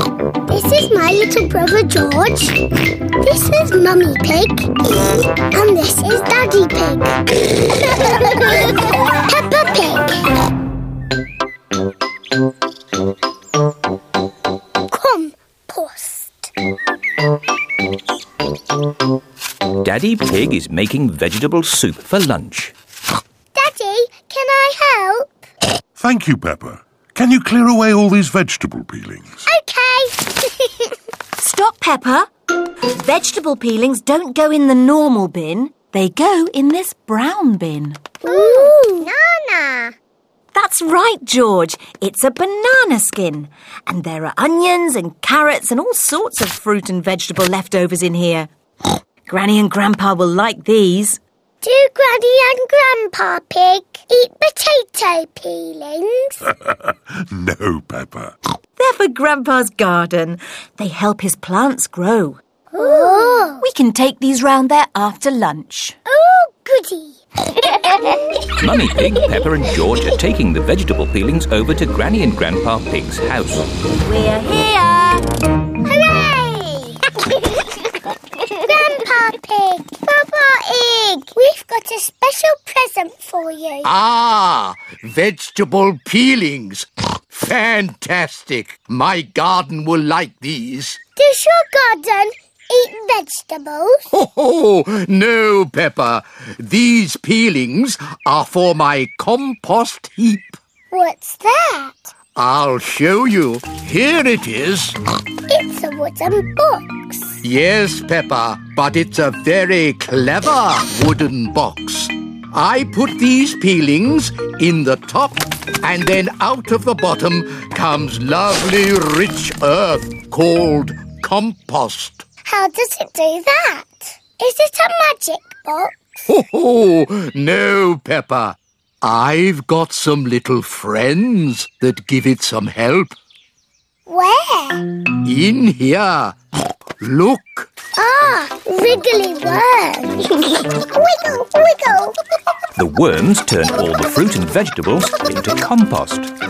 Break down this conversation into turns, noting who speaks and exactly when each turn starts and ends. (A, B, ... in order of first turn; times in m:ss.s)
0:00.5-0:02.6 A
0:03.2-0:04.7 A
0:05.5-0:10.2 A
0:14.9-0:16.5 A
0:19.8-0:22.7 B
0:23.5-0:25.3 A
0:26.0-0:29.2 C
0:29.5-0:30.9 A
0:31.4-0:32.3 D
0:32.9-0:39.1 D
0:38.2-0:39.9 A
0:40.5-0:48.5 D
0:49.3-0:51.2 D
0:51.6-0:56.4 A
0:57.7-0:58.2 C
0:58.8-1:06.0 D
1:02.7-1:03.6 A
1:06.1-1:08.4 A
1:08.5-1:13.7 B
1:14.0-1:15.3 D
1:15.8-1:17.0 A
1:18.6-1:23.9 A
1:23.8-1:31.0 E
1:31.2-1:34.1 A
1:34.1-1:40.6 E
1:40.9-1:42.1 A
1:42.4-1:45.0 E
1:45.5-1:47.4 A
1:47.4-2:02.2 E
2:02.5-2:06.3 A
2:06.3-2:13.1 E
2:14.1-2:14.9 A
2:15.2-2:16.4 E
2:17.0-2:17.7 E
2:18.0-2:22.2 A
2:22.8-2:26.3 B